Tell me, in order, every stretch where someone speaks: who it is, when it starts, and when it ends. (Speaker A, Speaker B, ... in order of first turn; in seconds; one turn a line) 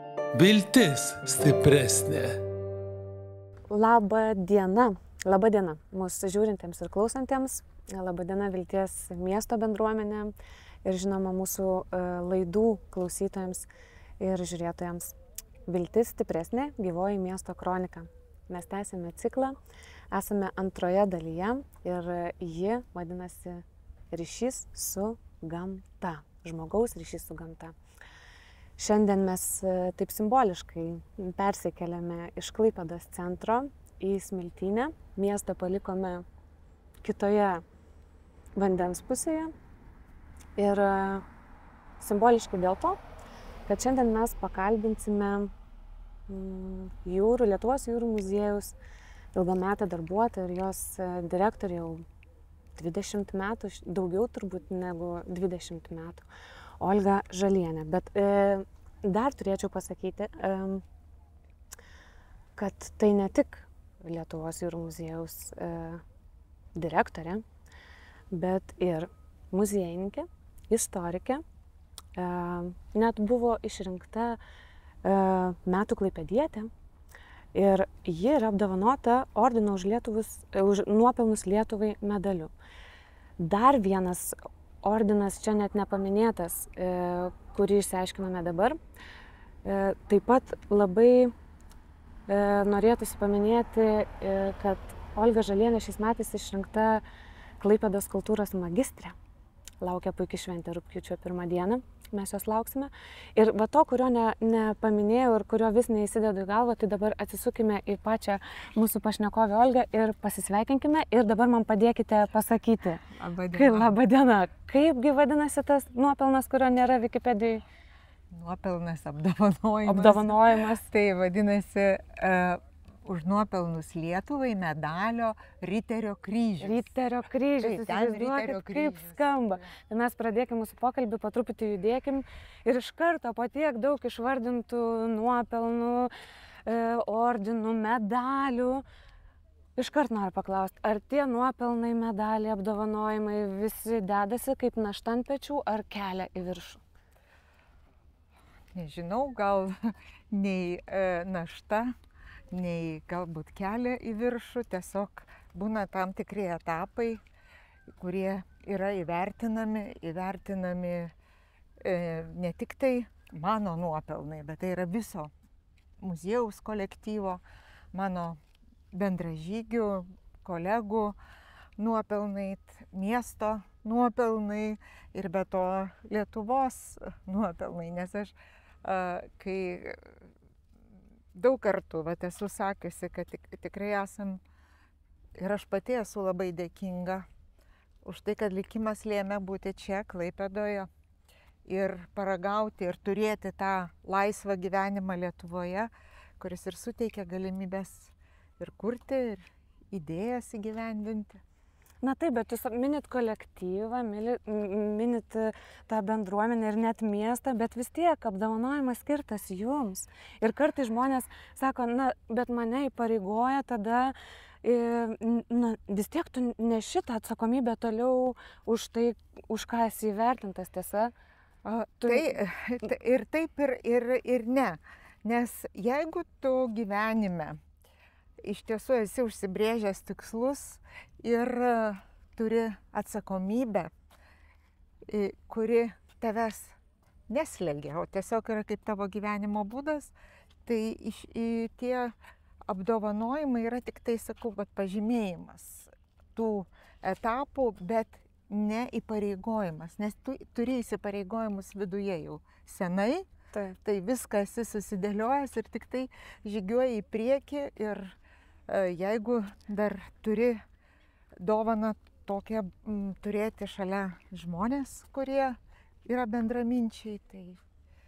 Speaker A: 0.3-2.4
Speaker B: 3.7-13.7
Speaker B: 14.2-15.2
Speaker B: 15.7-19.6
Speaker B: 20.1-27.8
Speaker B: 28.8-36.3
Speaker B: 37.0-37.6
Speaker B: 38.5-39.5
Speaker B: 40.6-41.2
Speaker B: 42.0-43.0
Speaker B: 43.7-45.5
Speaker B: 46.3-48.8
Speaker B: 49.3-52.0
Speaker B: 52.8-56.3
Speaker B: 56.8-60.8
Speaker B: 62.6-66.0
Speaker B: 66.8-67.4
Speaker B: 68.3-71.4
Speaker B: 72.2-74.4
Speaker B: 75.0-76.7
Speaker B: 77.5-82.5
Speaker B: 83.4-88.8
Speaker B: 89.7-91.3
Speaker B: 92.3-97.0
Speaker B: 97.6-99.2
Speaker B: 99.8-117.6
Speaker C: 113.1-113.9
Speaker C: 118.3-126.9
Speaker B: 119.8-120.9
Speaker B: 126.6-136.1
Speaker C: 127.6-129.7
Speaker B: 136.7-138.8
Speaker B: 139.8-146.8
Speaker C: 148.7-151.9
Speaker C: 152.5-157.2
Speaker C: 158.0-161.1
Speaker C: 161.8-165.3
Speaker C: 166.0-167.4
Speaker C: 167.9-168.4
Speaker C: 168.9-171.2
Speaker C: 171.8-180.2
Speaker C: 181.3-184.4
Speaker C: 185.4-187.3
Speaker C: 188.0-190.9
Speaker C: 191.7-201.4
Speaker B: 202.0-221.1
Speaker C: 221.6-227.6
Speaker B: 222.0-222.3
Speaker C: 228.4-233.9
Speaker C: 235.1-236.8
Speaker C: 237.3-240.1
Speaker C: 240.7-242.2
Speaker C: 242.7-253.3
Speaker C: 253.8-258.2
Speaker C: 258.7-260.6
Speaker C: 261.4-267.6